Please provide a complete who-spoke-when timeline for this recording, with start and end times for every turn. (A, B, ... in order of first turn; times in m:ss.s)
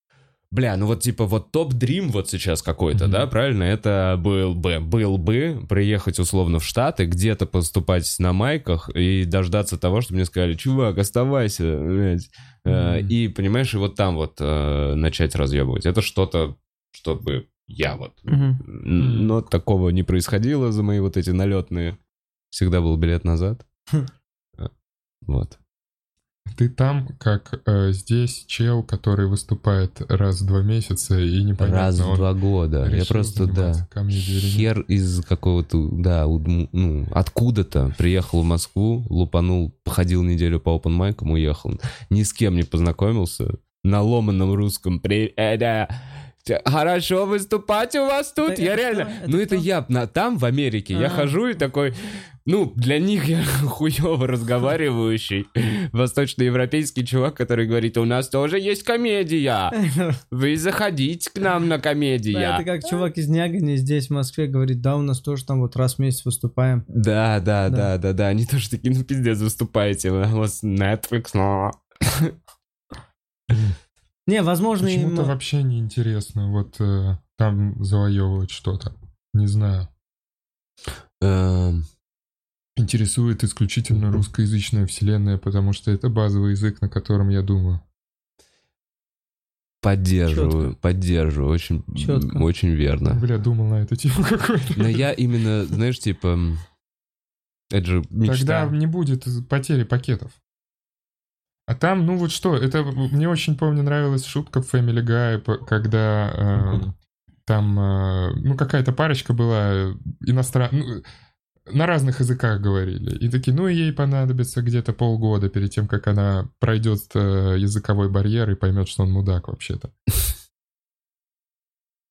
0:00.5-0:22.0 A
0:02.9-0:03.3 B
0:12.7-0:13.1 B
0:18.3-0:18.6 C
0:19.0-0:19.4 B
0:22.5-0:23.6 A
0:25.2-0:25.6 A
0:26.5-0:32.3 B
0:31.6-0:33.8 A
0:32.8-0:34.7 B
0:34.4-0:59.8 A
0:48.4-0:49.7 C
0:50.9-0:51.3 C
0:59.7-1:00.2 C
1:00.3-1:02.6 A
1:02.3-1:06.8 C
1:06.9-1:12.3 A
1:13.5-1:13.8 B
1:14.3-1:15.3 C
1:14.8-1:19.9 B
1:21.2-1:21.8 A
1:22.8-1:27.8 B
1:29.8-1:33.2 A
1:30.3-1:30.7 C
1:32.0-1:32.4 C
1:33.0-1:35.0 B
1:34.7-1:36.6 A
1:37.7-1:38.7 A
1:38.2-1:40.4 B
1:41.7-1:46.9 B
1:47.4-1:51.0 B
1:51.7-1:59.9 B